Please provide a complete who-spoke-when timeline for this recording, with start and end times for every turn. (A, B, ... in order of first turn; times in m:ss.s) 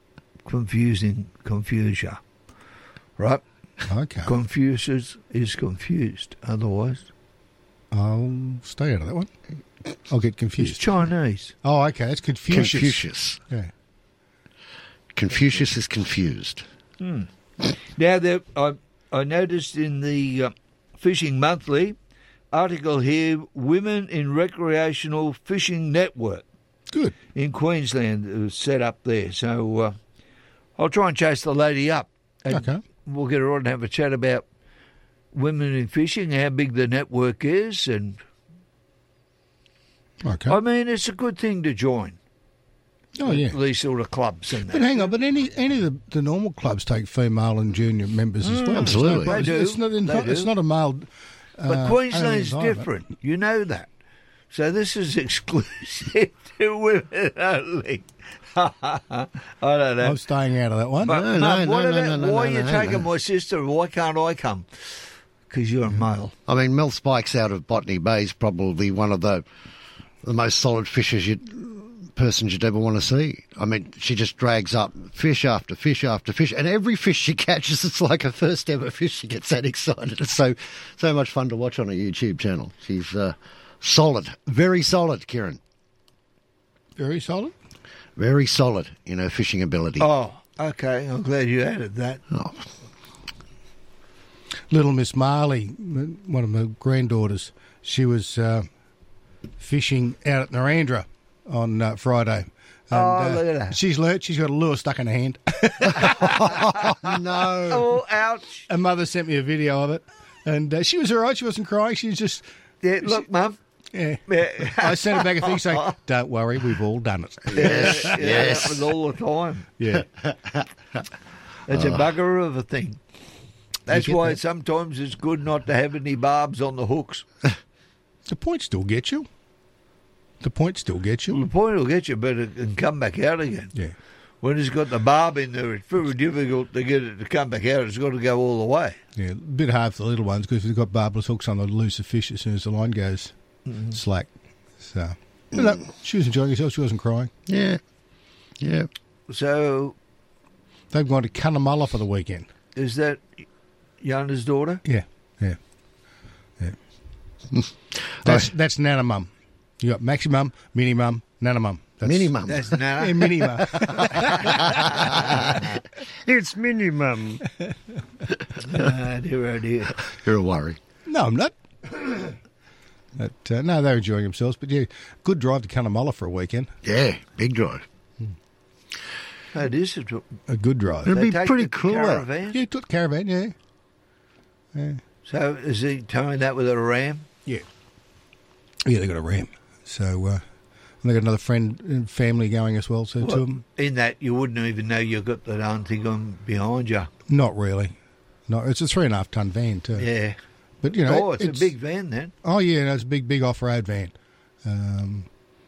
0:00.4-0:02.2 A
0:03.9-0:04.3 B
0:04.2-0:07.0 A
0:07.9-0:09.3 B
0:10.1-0:10.8 B
0:10.6-0:11.5 A
0:11.6-0:13.7 B
0:12.5-0:13.4 C
0:15.1-0:16.6 C
0:17.0-0:17.3 A
0:18.0-0:22.0 A
0:22.5-0:26.4 A
0:27.3-0:30.0 A
0:30.8-0:34.4 A
0:32.5-0:32.8 B
0:35.3-0:38.2 A
0:40.2-0:40.6 B
0:40.5-0:42.2 A
0:43.2-0:43.6 B
0:43.2-0:45.1 A
0:44.7-0:51.0 B
0:48.4-0:50.5 A
0:48.7-0:49.4 C
0:51.6-0:52.9 B
0:51.6-0:53.9 A
0:54.5-1:00.2 A
1:00.0-1:01.2 B
1:01.0-1:04.7 A
1:01.1-1:03.1 C
1:05.5-1:06.3 A
1:06.5-1:09.4 C
1:10.2-1:25.6 C
1:27.0-1:27.5 B
1:28.2-1:30.1 C
1:30.0-1:32.2 A
1:32.3-1:32.6 C
1:34.7-1:38.7 B
1:39.6-1:46.2 B
1:42.9-1:43.8 A
1:46.0-1:47.9 C
1:47.7-1:48.7 A
1:48.7-1:52.4 B
1:52.8-1:53.6 A
1:53.9-1:58.2 B
1:54.3-1:55.9 A
1:57.5-1:58.8 C
1:57.5-1:59.7 A
1:59.8-2:00.0 B
2:00.3-2:00.6 C
2:01.7-2:03.0 A
2:01.7-2:02.0 C
2:03.9-2:07.2 A
2:03.9-2:04.4 B
2:08.3-2:09.3 B
2:10.4-2:11.4 B
2:11.3-2:13.7 A
2:14.4-2:19.0 A
2:19.2-2:23.3 B
2:23.7-2:23.9 A
2:23.9-2:24.3 B
2:24.8-2:27.3 B
2:27.5-2:27.8 C
2:28.6-2:28.9 C
2:29.3-2:29.9 A
2:30.9-2:32.5 B
2:32.8-2:33.2 A
2:34.0-2:34.8 A
2:34.8-2:35.6 B
2:38.2-2:42.3 B
2:42.0-2:42.7 C
2:42.5-2:43.4 A
2:43.0-2:44.7 B
2:43.8-2:45.6 C
2:46.2-2:47.4 C
2:48.6-2:50.0 A
2:50.2-2:50.8 C
2:51.0-2:51.5 B
2:53.2-2:56.7 B
2:56.8-2:57.8 C
2:59.5-3:00.2 A
3:00.5-3:01.1 B
3:01.0-3:02.6 A
3:01.0-3:02.2 C
3:02.5-3:03.5 B
3:04.7-3:05.0 B
3:05.2-3:07.2 A
3:08.8-3:10.4 B
3:11.0-3:13.6 B
3:13.2-3:17.1 A
3:17.3-3:17.9 B
3:18.5-3:20.1 B
3:20.0-3:20.4 A
3:20.8-3:21.7 B
3:20.9-3:22.3 A
3:22.4-3:25.3 B